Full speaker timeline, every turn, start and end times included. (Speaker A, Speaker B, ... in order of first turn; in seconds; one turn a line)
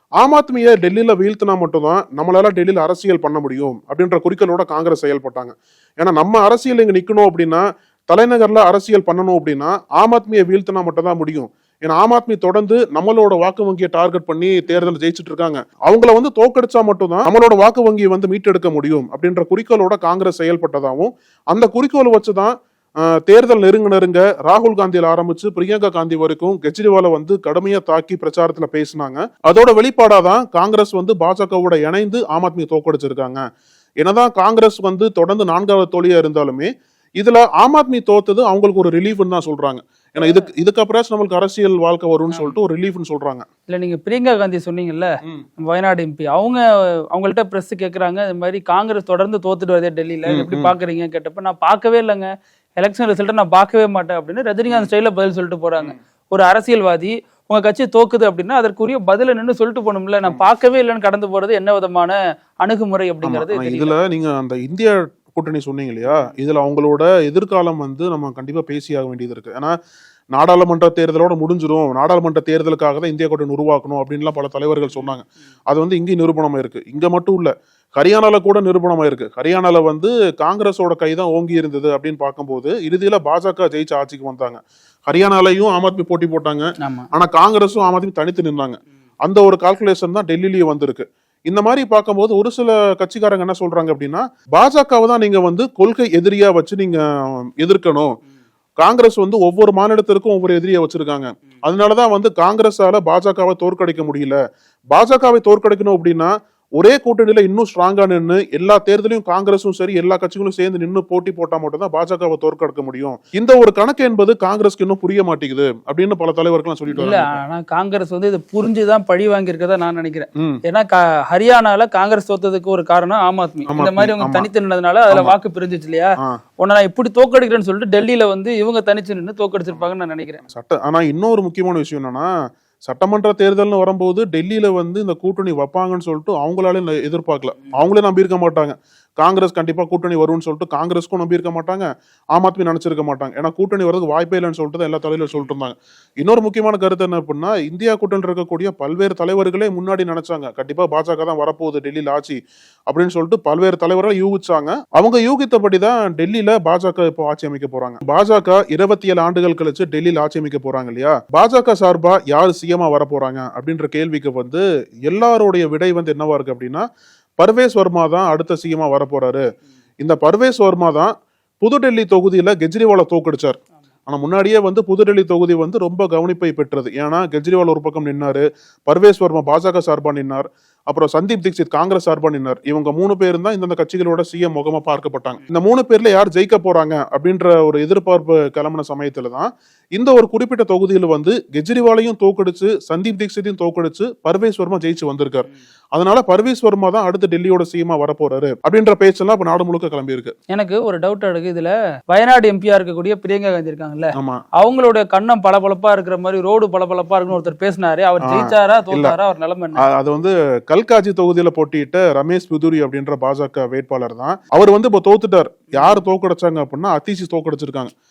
Speaker A: 0.2-33.4
Speaker A: 34.0-43.4
Speaker B: 40.2-40.5
Speaker B: 43.7-64.0
Speaker A: 50.3-50.7
Speaker A: 63.2-69.7
Speaker B: 66.1-66.3
Speaker A: 70.3-98.1
Speaker B: 86.8-87.1
Speaker A: 98.8-104.4
Speaker A: 104.9-117.4
Speaker B: 116.9-130.4
Speaker A: 123.7-124.5
Speaker A: 125.1-125.3
Speaker A: 130.5-132.3
Speaker A: 132.8-152.4
Speaker A: 152.9-166.8
Speaker A: 167.4-169.4
Speaker A: 170.0-200.3
Speaker B: 200.5-209.8
Speaker A: 204.2-204.4
Speaker A: 208.2-209.2
Speaker A: 209.8-217.9
Speaker B: 215.7-216.0